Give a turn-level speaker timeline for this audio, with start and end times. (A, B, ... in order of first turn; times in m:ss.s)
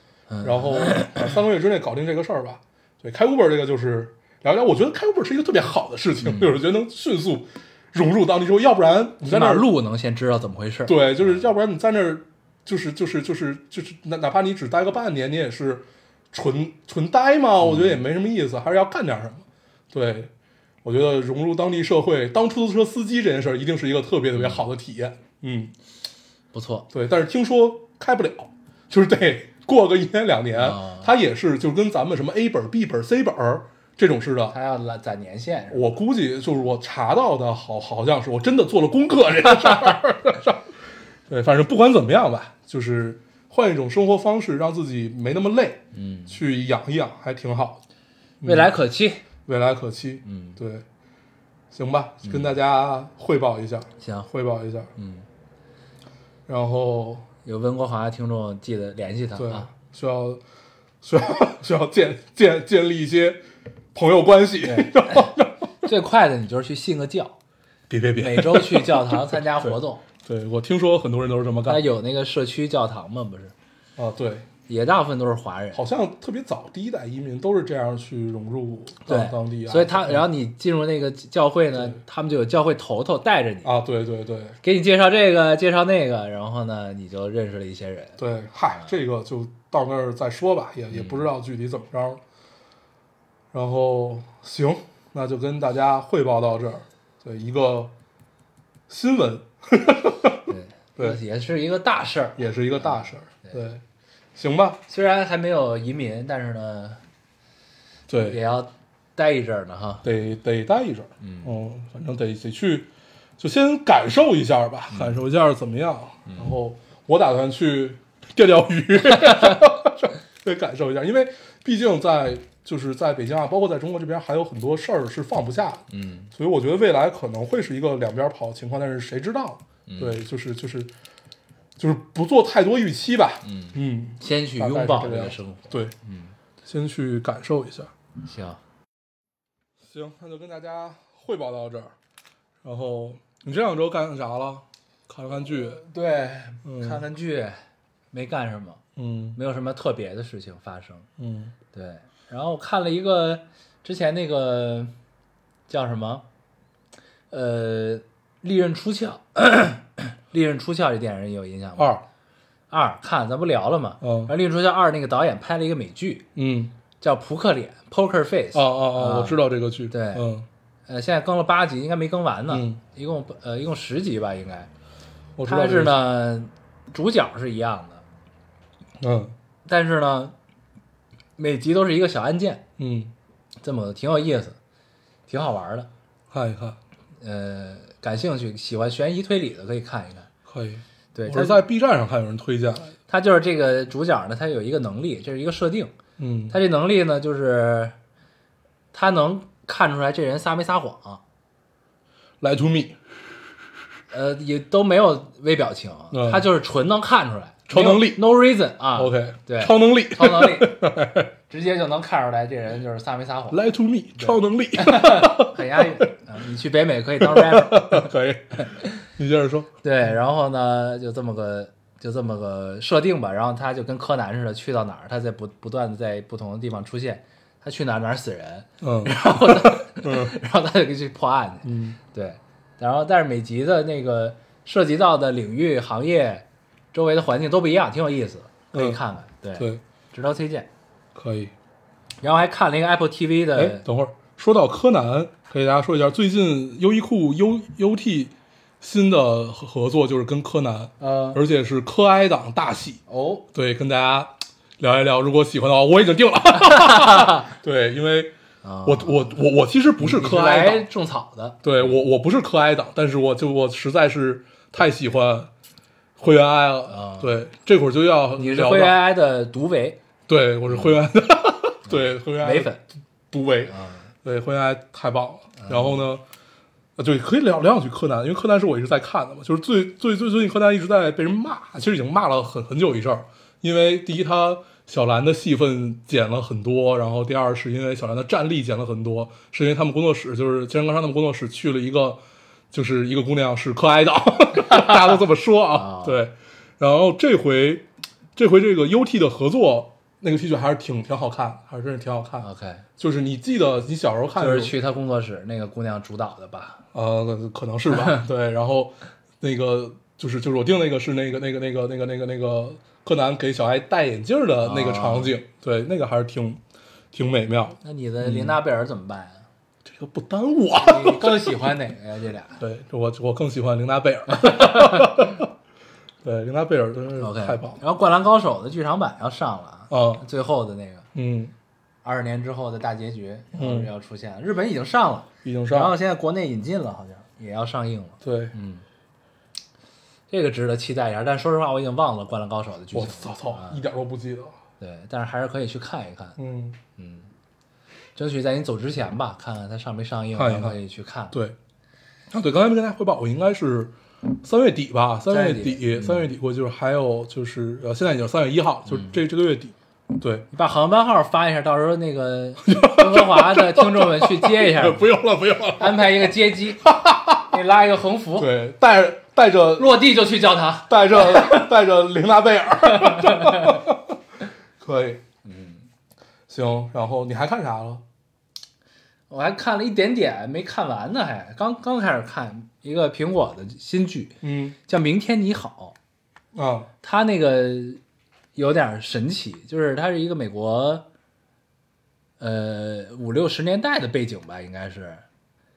0:00.3-0:01.3 A
0:00.4-0:09.7 B
0:06.2-0:06.5 A
0:09.2-0:11.4 A
0:10.9-0:20.3 B
0:17.6-0:18.0 A
0:20.8-0:25.7 B
0:26.5-0:26.9 A
0:26.9-0:34.6 B
0:30.6-0:31.1 A
0:34.5-0:35.9 A
0:35.7-0:40.7 B
0:41.3-0:47.8 B
0:45.9-0:46.4 A
0:48.4-0:48.7 B
0:48.4-0:49.2 A
0:49.4-0:50.8 B
0:50.2-0:50.6 A
0:51.7-0:54.9 B
0:54.0-0:54.3 A
0:55.0-0:55.2 A
0:56.5-0:57.3 B
0:57.4-0:59.7 A
0:59.4-1:00.4 B
1:01.0-1:03.4 B
1:03.9-1:05.6 B
1:04.6-1:05.3 A
1:05.8-1:07.4 A
1:07.9-1:11.8 B
1:08.2-1:10.0 A
1:11.7-1:13.5 A
1:14.0-1:14.5 B
1:14.7-1:15.8 A
1:15.7-1:20.3 B
1:19.1-1:23.7 A
1:23.6-1:24.6 B
1:24.6-1:28.2 A
1:28.2-1:32.2 B
1:30.9-1:31.3 A
1:33.5-1:37.9 B
1:38.9-1:41.2 B
1:40.5-1:43.6 A
1:42.4-1:43.8 B
1:44.4-1:44.8 B
1:44.9-1:47.0 A
1:48.1-1:48.4 B
1:48.1-1:50.0 A
1:50.0-2:10.9 B
1:51.2-1:51.5 A
1:54.9-1:55.2 A
1:59.3-1:59.6 A
2:05.9-2:06.3 A
2:09.9-2:10.2 A
2:11.8-2:15.9 B
2:13.4-2:16.3 A
2:16.6-2:17.9 B
2:18.2-2:18.6 A
2:19.8-2:21.9 B
2:22.6-2:25.8 B
2:25.7-2:27.6 A
2:26.6-2:27.0 B
2:28.1-2:28.8 A
2:29.0-2:29.4 B
2:29.4-2:31.1 A
2:31.2-2:31.5 B
2:31.7-2:34.9 A
2:35.7-2:36.2 A
2:37.3-2:42.0 A
2:41.8-2:42.0 B
2:42.7-2:46.3 A
2:44.0-2:44.3 B
2:46.4-2:46.7 B
2:47.0-2:50.3 A
2:48.5-2:50.5 B
2:50.9-2:54.7 A
2:52.5-2:52.8 B
2:55.4-2:56.0 B
2:55.4-2:58.0 A
2:59.0-2:59.4 B
2:59.7-3:00.4 A
3:01.4-3:02.6 A
3:02.8-3:03.1 B
3:03.6-3:04.6 A
3:05.3-3:05.9 A
3:06.3-3:06.8 B
3:07.2-3:10.3 A
3:10.5-3:13.0 B
3:11.1-3:11.6 A
3:13.1-3:15.9 A
3:16.2-3:16.6 B
3:16.5-3:18.0 A
3:18.9-3:21.2 A
3:22.4-3:23.0 B
3:24.1-3:30.8 A
3:26.1-3:26.5 B
3:27.7-3:28.2 B
3:29.0-3:31.3 B
3:31.5-3:33.6 A
3:33.5-3:36.0 B
3:34.2-3:38.1 A
3:37.2-3:39.7 B
3:39.8-4:00.7 A
3:48.8-3:50.4 B
3:51.6-3:52.0 B
3:58.7-3:59.0 B
3:59.6-3:59.8 B
4:01.2-4:01.5 B
4:02.2-4:03.8 A
4:03.6-4:18.3 B
4:11.0-4:11.4 A
4:13.1-4:13.4 A
4:16.6-4:17.5 A
4:18.6-4:19.4 A
4:18.8-4:20.9 B
4:20.0-4:21.6 A
4:21.6-4:25.5 B
4:26.2-4:29.0 B
4:26.9-4:27.4 A
4:28.4-4:30.0 A
4:30.3-4:32.7 B
4:30.7-4:31.0 A
4:31.9-4:32.8 A
4:33.3-4:36.2 B
4:33.7-4:34.1 A
4:35.6-4:36.0 A
4:37.0-4:52.2 B
4:52.7-4:57.8 B
4:55.7-4:56.2 A
4:58.4-5:02.5 B
5:02.4-5:02.8 A
5:03.0-5:04.7 B
5:04.4-5:06.8 A
5:06.9-5:16.6 B
5:14.6-5:15.4 A
5:17.1-5:18.6 B
5:17.8-5:19.4 A
5:19.8-5:21.5 B
5:20.8-5:22.6 A
5:22.6-5:25.5 B
5:24.3-5:25.2 A
5:26.2-5:27.8 B
5:27.2-5:31.1 A
5:29.9-5:30.2 B
5:31.1-5:31.5 B
5:32.0-5:38.8 A
5:33.5-5:33.9 B
5:35.4-5:35.9 B
5:38.2-5:38.5 B
5:40.3-5:43.8 A
5:42.9-5:44.6 B
5:44.8-5:46.4 A
5:46.4-5:46.8 B
5:47.0-5:47.3 A
5:48.2-5:51.4 A
5:50.4-5:50.8 B
5:52.3-6:00.4 B
5:55.3-5:56.3 A
5:58.9-5:59.2 A
6:00.5-6:05.1 A
6:02.6-6:06.3 B
6:05.8-6:06.9 A
6:06.8-6:07.6 B
6:07.4-6:08.5 A
6:08.4-6:10.0 B
6:09.8-6:11.7 A
6:10.9-6:14.2 B
6:12.9-6:13.8 A
6:14.8-6:15.2 B
6:15.4-6:15.8 A
6:16.5-6:18.0 B
6:19.3-6:26.0 A
6:24.4-6:24.8 B
6:26.5-6:26.9 B
6:27.0-6:28.0 A
6:28.6-6:31.1 A
6:32.4-6:35.2 A